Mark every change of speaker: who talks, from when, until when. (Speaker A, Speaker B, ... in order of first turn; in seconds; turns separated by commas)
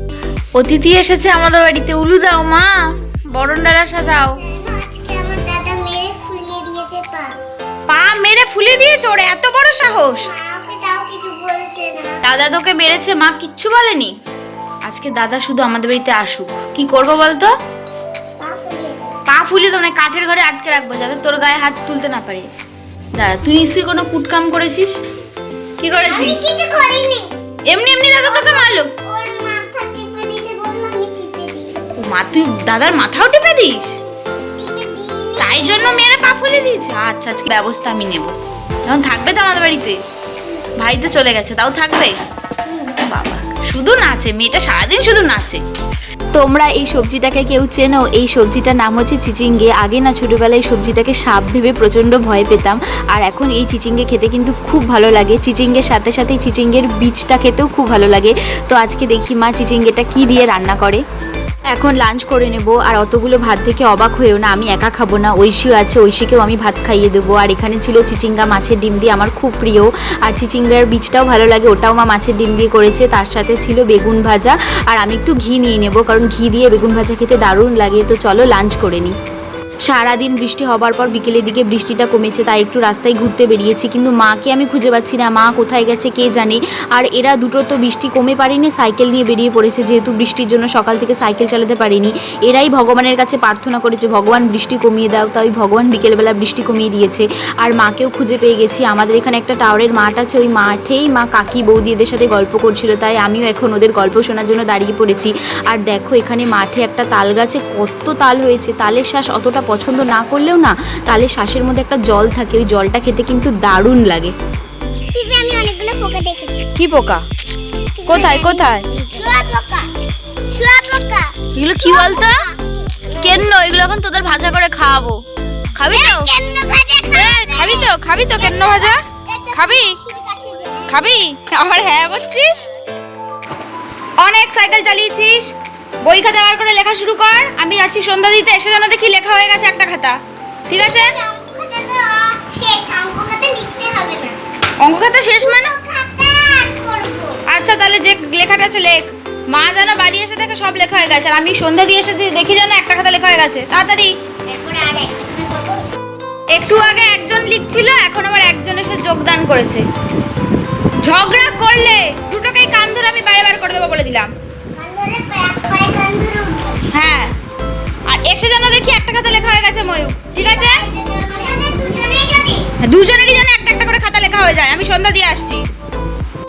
Speaker A: 0.6-4.4, Speaker B: 4.2-7.3, Speaker A: 7.9-10.3, Speaker B: 10.2-12.2, Speaker A: 12.2-14.1, Speaker A: 14.8-17.5, Speaker B: 18.4-19.2, Speaker A: 19.3-22.5, Speaker A: 23.1-25.0, Speaker A: 25.8-26.4, Speaker B: 26.0-27.3, Speaker A: 27.7-28.9, Speaker B: 28.2-31.8, Speaker A: 32.0-34.0, Speaker B: 34.6-36.1, Speaker A: 35.4-38.3, Speaker A: 38.9-40.0, Speaker A: 40.8-42.2, Speaker A: 43.0-45.6, Speaker C: 46.3-61.0, Speaker C: 61.7-79.2, Speaker C: 79.9-114.3, Speaker B: 115.1-116.7, Speaker A: 116.8-117.2, Speaker B: 118.0-119.9, Speaker A: 118.1-118.9, Speaker B: 120.5-123.2, Speaker A: 121.6-122.5, Speaker A: 123.1-125.2, Speaker A: 125.8-126.3, Speaker B: 125.8-131.0, Speaker A: 127.1-130.0, Speaker A: 130.9-132.7, Speaker A: 134.2-135.5, Speaker A: 136.0-141.2, Speaker B: 140.7-144.4, Speaker A: 144.8-145.8, Speaker B: 145.2-147.4, Speaker A: 147.5-154.1, Speaker B: 154.5-155.9, Speaker A: 156.5-159.9, Speaker A: 161.0-164.3, Speaker B: 164.8-166.8, Speaker A: 166.9-167.3, Speaker A: 168.1-170.8, Speaker B: 170.4-172.7, Speaker A: 172.8-175.6